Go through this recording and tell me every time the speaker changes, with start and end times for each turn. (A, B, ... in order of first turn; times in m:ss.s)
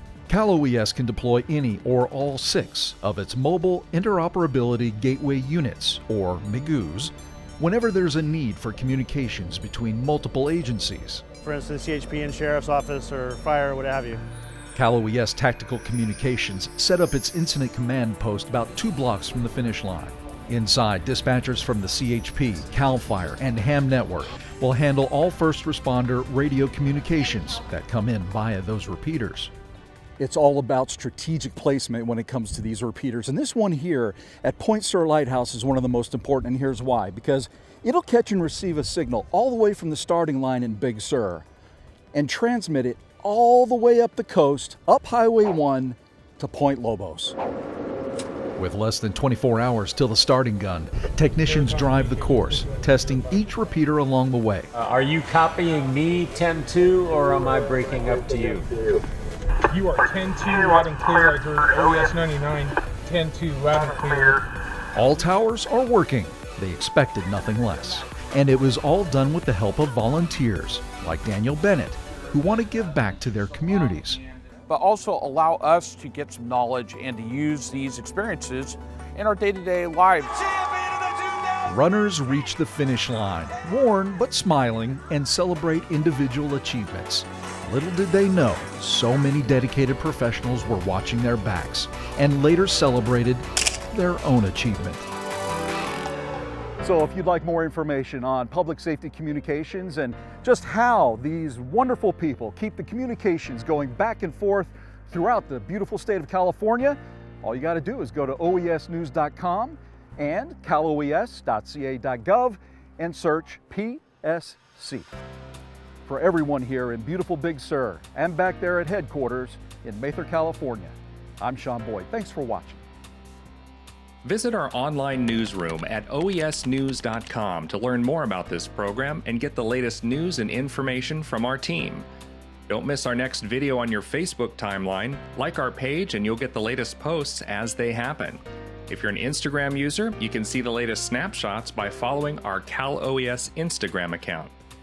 0:00.3-0:11.2 A
0:11.4-0:14.2 B
0:14.7-0:29.5 A
0:30.2-0:41.4 C
0:42.1-0:47.3 C
0:48.6-0:54.7 A
0:51.5-0:52.6 D
0:54.7-0:59.0 E
0:59.7-1:04.4 D
1:04.9-1:14.2 A
1:14.7-1:20.4 F
1:21.6-1:35.1 A
1:36.8-1:55.1 C
1:56.0-2:02.8 C
2:04.2-2:12.1 G
2:12.7-2:24.5 G